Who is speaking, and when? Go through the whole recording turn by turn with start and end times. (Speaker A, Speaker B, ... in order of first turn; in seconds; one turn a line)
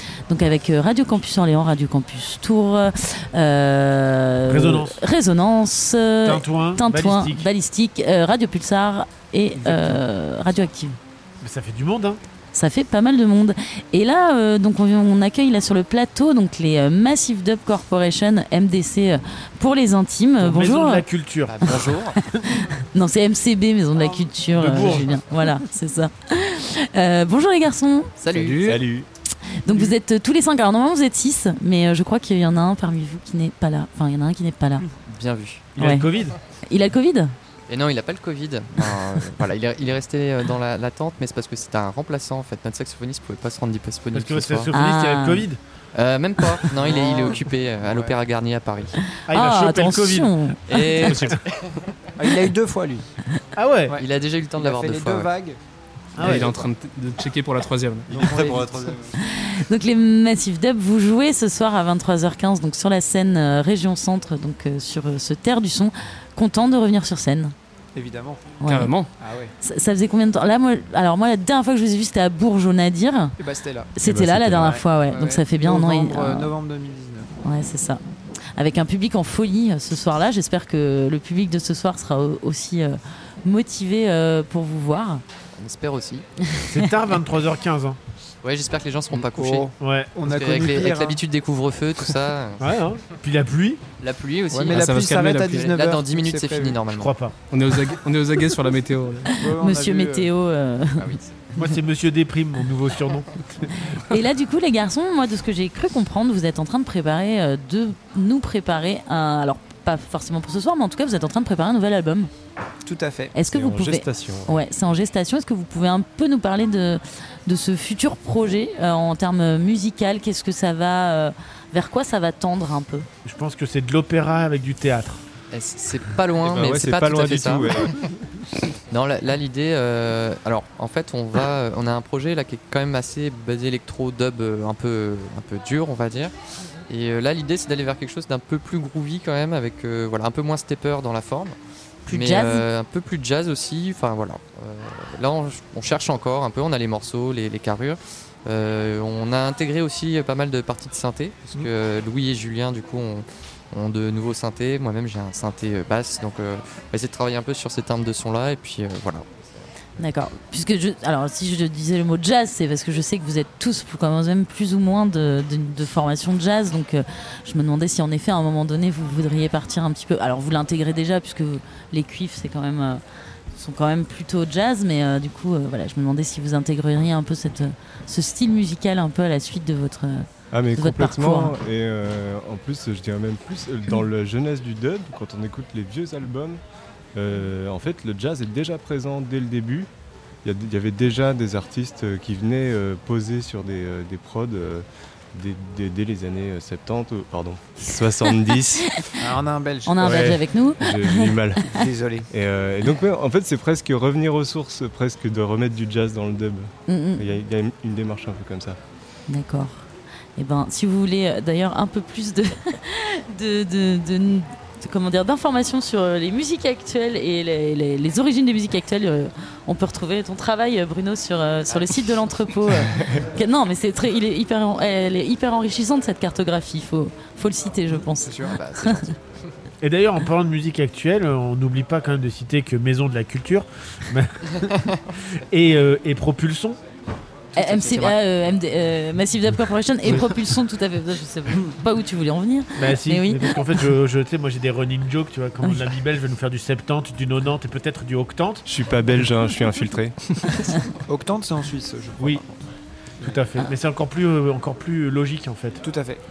Speaker A: 0.3-11.0
Speaker B: 4.5-5.0
Speaker B: 6.2-7.5
Speaker B: 9.6-10.0
Speaker B: 11.4-12.2
Speaker A: 12.5-21.0
Speaker B: 20.4-22.4
Speaker C: 21.4-22.2
Speaker A: 22.5-28.1
Speaker D: 23.9-24.3
Speaker B: 24.5-25.5
Speaker C: 28.2-28.8
Speaker E: 28.3-28.8
Speaker F: 28.6-29.1
Speaker A: 29.6-34.8
Speaker C: 35.1-35.6
Speaker B: 35.8-36.4
Speaker A: 35.8-36.1
Speaker A: 36.7-37.3
Speaker C: 37.7-44.7
Speaker B: 44.1-45.6
Speaker A: 44.7-45.5
Speaker C: 45.9-49.0
Speaker D: 46.8-48.2
Speaker B: 49.3-51.4
Speaker A: 49.3-51.3
Speaker C: 50.7-51.7
Speaker D: 52.2-53.0
Speaker B: 53.5-54.0
Speaker C: 54.0-55.3
Speaker D: 54.6-55.6
Speaker B: 56.2-56.6
Speaker E: 56.2-58.6
Speaker D: 58.1-59.1
Speaker F: 58.1-59.0
Speaker A: 59.2-67.5
Speaker D: 67.9-68.4
Speaker A: 68.6-68.9
Speaker E: 68.7-69.1
Speaker D: 69.2-69.5
Speaker A: 69.6-73.3
Speaker D: 73.4-73.9
Speaker A: 74.0-76.5
Speaker F: 74.0-74.8
Speaker D: 74.6-77.3
Speaker A: 77.4-78.0
Speaker A: 78.5-85.2
Speaker C: 85.5-86.2
Speaker B: 86.7-88.0
Speaker C: 88.4-89.7
Speaker D: 89.2-91.2
Speaker B: 89.8-90.1
Speaker C: 90.2-92.8
Speaker B: 92.6-93.8
Speaker C: 94.0-94.9
Speaker D: 94.5-96.8
Speaker E: 94.7-95.7
Speaker C: 95.5-97.1
Speaker B: 96.9-97.3
Speaker E: 97.5-99.4
Speaker D: 99.4-100.3
Speaker A: 99.4-101.1
Speaker C: 101.0-101.4
Speaker B: 101.5-103.7
Speaker A: 103.9-112.3
Speaker D: 112.8-113.3
Speaker A: 113.3-123.1
Speaker F: 113.5-114.5
Speaker B: 123.2-125.2
Speaker C: 125.5-127.7
Speaker F: 126.4-128.1
Speaker C: 128.9-136.3
Speaker C: 136.9-159.6
Speaker A: 142.1-142.6
Speaker A: 160.0-173.0
Speaker A: 173.5-181.5
Speaker F: 180.5-186.6
Speaker F: 187.1-189.9
Speaker F: 190.4-198.9
Speaker A: 198.2-201.8
Speaker D: 199.2-200.2
Speaker F: 200.0-208.8
Speaker D: 201.7-202.3
Speaker A: 206.9-207.3
Speaker A: 209.3-209.8
Speaker A: 210.3-229.1
Speaker C: 228.0-229.2
Speaker B: 229.8-234.8
Speaker B: 235.5-236.8
Speaker C: 237.5-238.2
Speaker A: 237.5-243.6
Speaker B: 242.8-248.7
Speaker A: 245.6-245.9
Speaker F: 248.7-250.2
Speaker D: 251.1-252.6
Speaker B: 253.2-255.8
Speaker D: 255.8-256.2